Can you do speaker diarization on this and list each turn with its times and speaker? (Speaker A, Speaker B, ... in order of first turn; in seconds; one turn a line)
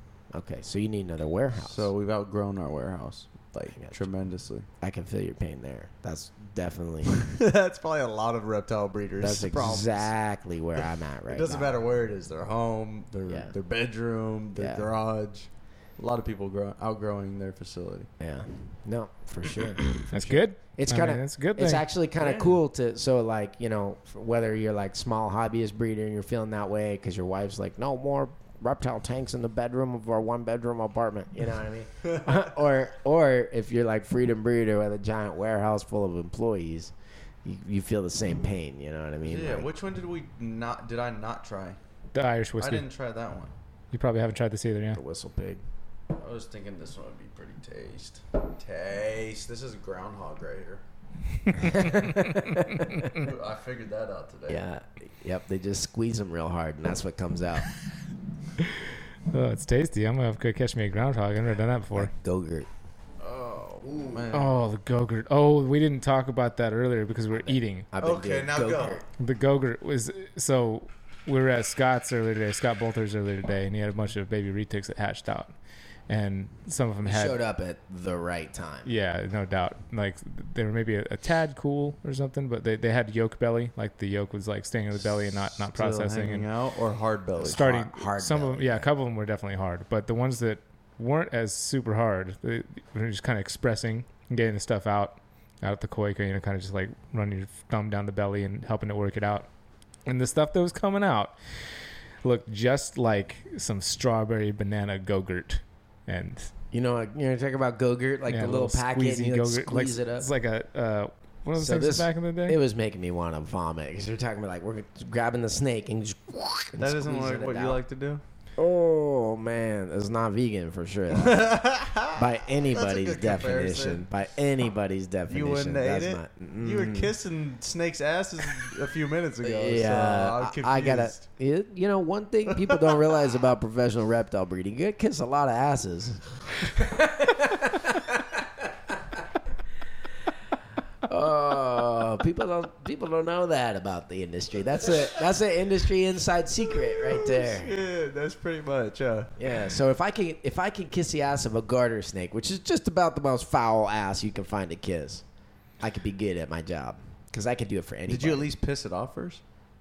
Speaker A: 0.3-1.9
Speaker B: 1.6-4.7
Speaker A: 4.8-7.2
Speaker B: 7.0-10.1
Speaker A: 9.2-11.7
Speaker B: 11.3-18.1
Speaker A: 13.3-13.5
Speaker A: 14.6-14.9
Speaker A: 18.2-20.1
Speaker B: 19.9-20.4
Speaker C: 20.1-21.8
Speaker A: 20.7-36.9
Speaker B: 22.2-22.5
Speaker B: 32.1-32.3
Speaker A: 37.4-39.7
Speaker B: 39.2-41.8
Speaker C: 42.1-42.9
Speaker B: 42.6-43.5
Speaker C: 43.9-45.0
Speaker A: 44.9-45.6
Speaker B: 46.1-50.8
Speaker A: 51.6-53.2
Speaker C: 51.6-52.8
Speaker B: 53.0-54.6
Speaker A: 54.5-57.7
Speaker C: 59.3-62.1
Speaker A: 61.9-62.7
Speaker B: 63.2-64.5
Speaker A: 63.8-64.2
Speaker C: 64.3-67.9
Speaker A: 67.5-69.0
Speaker B: 68.0-69.0
Speaker C: 69.2-75.5
Speaker C: 76.1-77.4
Speaker A: 77.0-78.9
Speaker C: 78.8-86.5
Speaker B: 85.5-87.6
Speaker A: 87.4-88.9
Speaker C: 87.5-99.5
Speaker C: 100.0-101.3
Speaker C: 102.2-106.5
Speaker A: 106.7-110.3
Speaker C: 108.3-112.6
Speaker A: 111.6-117.8
Speaker B: 116.8-118.2
Speaker A: 118.6-121.6
Speaker B: 121.1-124.1
Speaker A: 122.1-127.1
Speaker B: 125.3-131.2
Speaker A: 129.4-138.7
Speaker B: 132.5-133.0
Speaker A: 141.1-147.8
Speaker B: 146.9-149.3
Speaker A: 149.4-155.2
Speaker A: 155.8-158.5
Speaker B: 158.1-159.4